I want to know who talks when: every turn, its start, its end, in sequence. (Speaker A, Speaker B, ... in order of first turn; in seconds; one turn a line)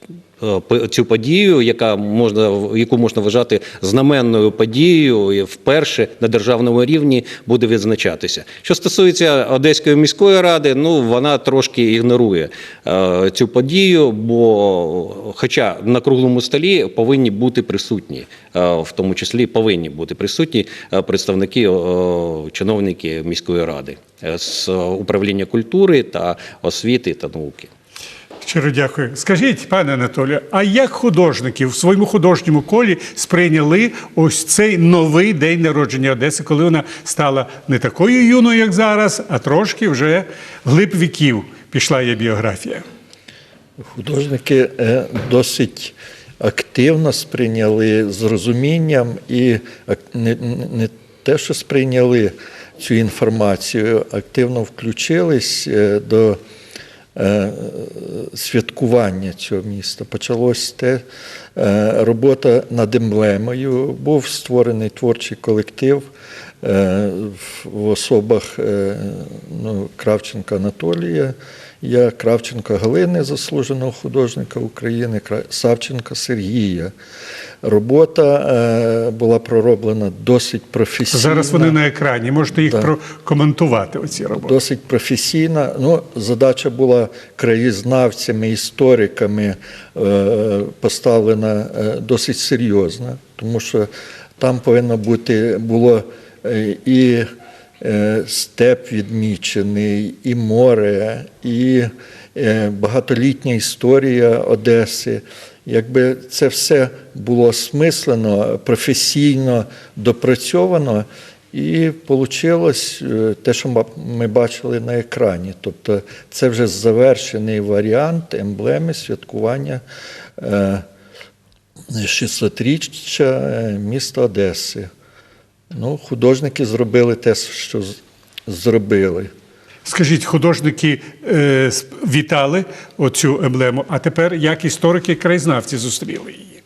Speaker A: 0.4-27.7
Speaker B: 28.4-42.8
Speaker C: 43.9-56.4
Speaker C: 57.1-61.0
Speaker C: 61.5-66.0
Speaker C: 66.6-76.9
Speaker C: 77.6-81.8
Speaker B: 81.1-84.5
Speaker C: 82.6-82.9
Speaker C: 84.3-97.2
Speaker C: 97.8-119.8
Speaker C: 120.4-120.8
Speaker C: 121.9-124.9
Speaker C: 125.7-129.3
Speaker B: 129.8-136.5